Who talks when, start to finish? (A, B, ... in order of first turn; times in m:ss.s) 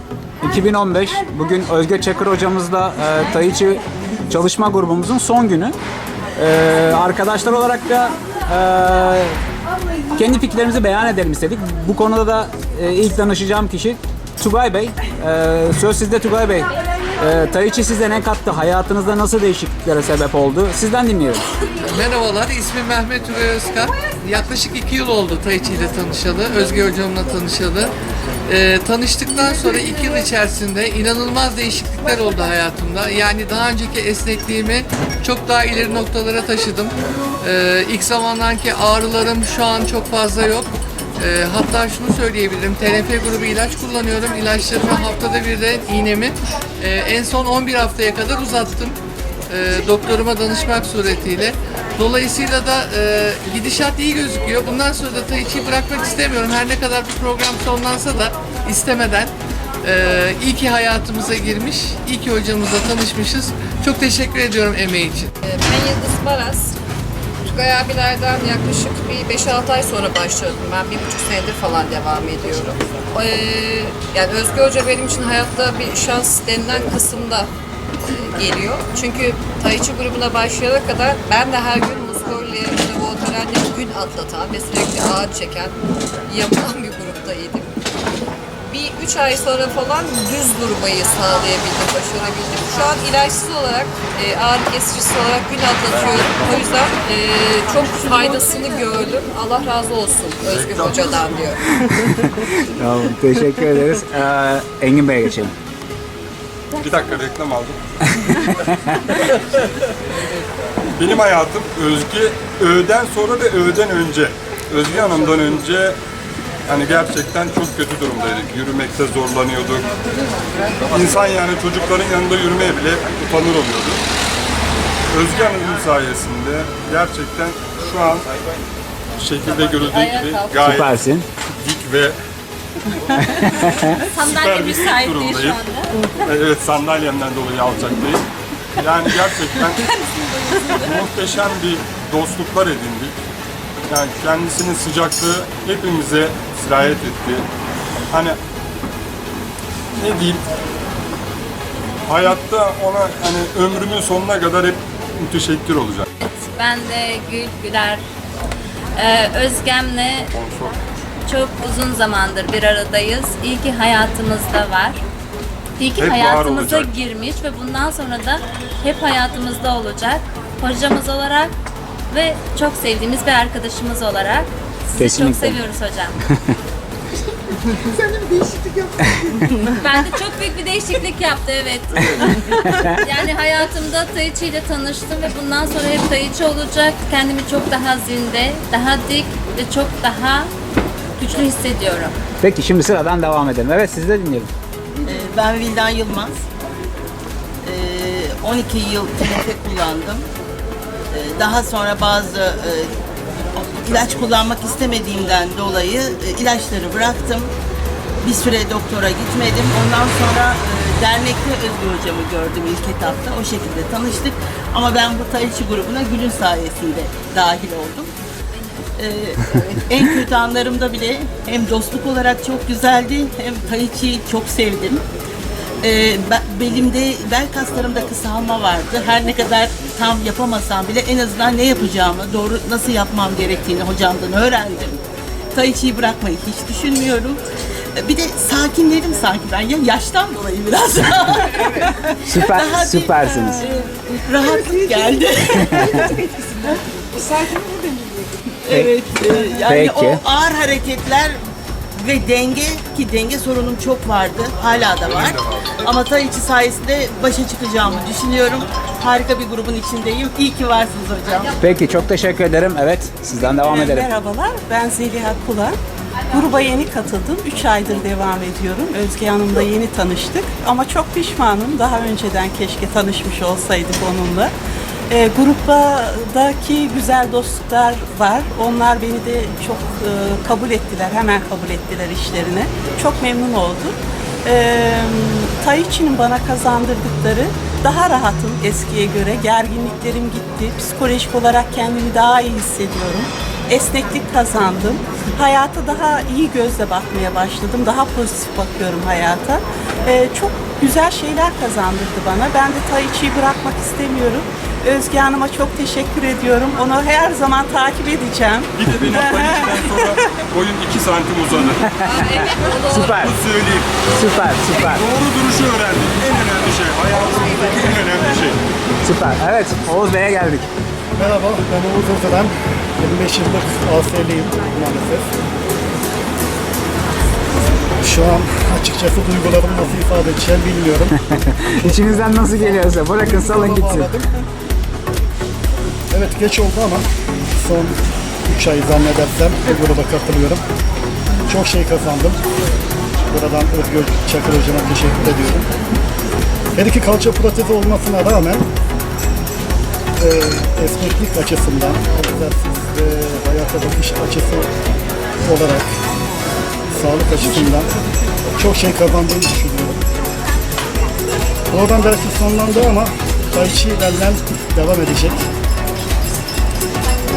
0:00.4-0:05.8 A
0:06.4-0:09.4 A
0:10.1-0:21.5 A
0:21.8-0:27.9 B
0:28.5-0:49.0 B
0:49.5-0:59.3 B
0:59.8-1:05.3 B
1:05.4-1:06.8 C
1:07.4-1:17.5 C
1:18.0-1:25.7 C
1:26.3-1:27.7 C
1:28.6-1:41.6 C
1:40.5-1:41.4 D
1:41.8-1:45.5 A
1:46.8-1:47.8 D
1:48.2-1:48.9 A
1:51.0-1:56.0 D
1:56.7-1:59.9 D
2:00.9-2:04.0 D
2:05.1-2:08.3 D
2:09.2-2:11.0 D
2:09.9-2:10.5 C
2:10.6-2:11.3 A
2:11.6-2:12.2 D
2:13.4-2:13.9 A
2:14.1-2:15.9 E
2:14.2-2:15.6 D
2:16.2-2:18.2 D
2:18.8-2:19.9 D
2:20.6-2:20.9 E
2:20.8-2:23.2 D
2:23.9-2:27.5 D
2:28.1-2:28.4 D
2:30.0-2:30.4 D
2:32.1-2:36.1 D
2:36.2-2:38.0 E
2:39.0-2:40.3 E
2:40.3-2:40.8 D
2:41.3-2:45.0 E
2:45.8-2:51.5 E
2:46.0-2:47.0 D
2:52.1-2:56.1 E
2:55.0-2:55.6 A
2:56.3-2:56.6 A
2:57.9-2:58.7 F
2:59.7-3:02.4 E
3:02.5-3:03.0 A
3:03.0-3:10.5 E
3:11.2-3:12.2 E
3:12.4-3:14.5 A
3:15.0-3:16.4 F
3:17.6-3:20.3 F
3:21.1-3:22.9 F
3:23.6-3:27.5 F
3:28.2-3:38.1 F
3:39.0-3:45.0 F
3:45.8-3:55.0 F
3:55.5-3:57.4 F
3:58.0-4:06.4 F
4:02.2-4:03.6 A
4:05.6-4:06.0 A
4:08.6-4:11.4 F
4:09.7-4:10.2 A
4:12.0-4:21.5 F
4:15.0-4:15.8 D
4:21.6-4:24.1 A
4:23.4-4:25.8 G
4:26.3-4:34.5 G
4:35.1-5:10.1 G
5:08.8-5:12.0 D
5:11.9-5:13.4 A
5:12.0-5:13.2 C
5:13.1-5:13.9 D
5:14.1-5:15.0 A
5:14.8-5:18.6 D
5:19.0-5:20.7 A
5:21.2-5:25.3 H
5:28.0-5:31.2 H
5:31.3-5:34.1 A
5:31.8-5:34.3 H
5:36.1-5:37.1 H
5:37.6-5:40.6 H
5:41.5-5:42.4 H
5:43.3-5:45.7 H
5:46.8-5:48.6 H
5:50.2-5:54.7 H
5:55.4-5:55.9 H
5:56.9-5:57.9 H
5:58.6-6:00.0 H
6:01.7-6:05.5 H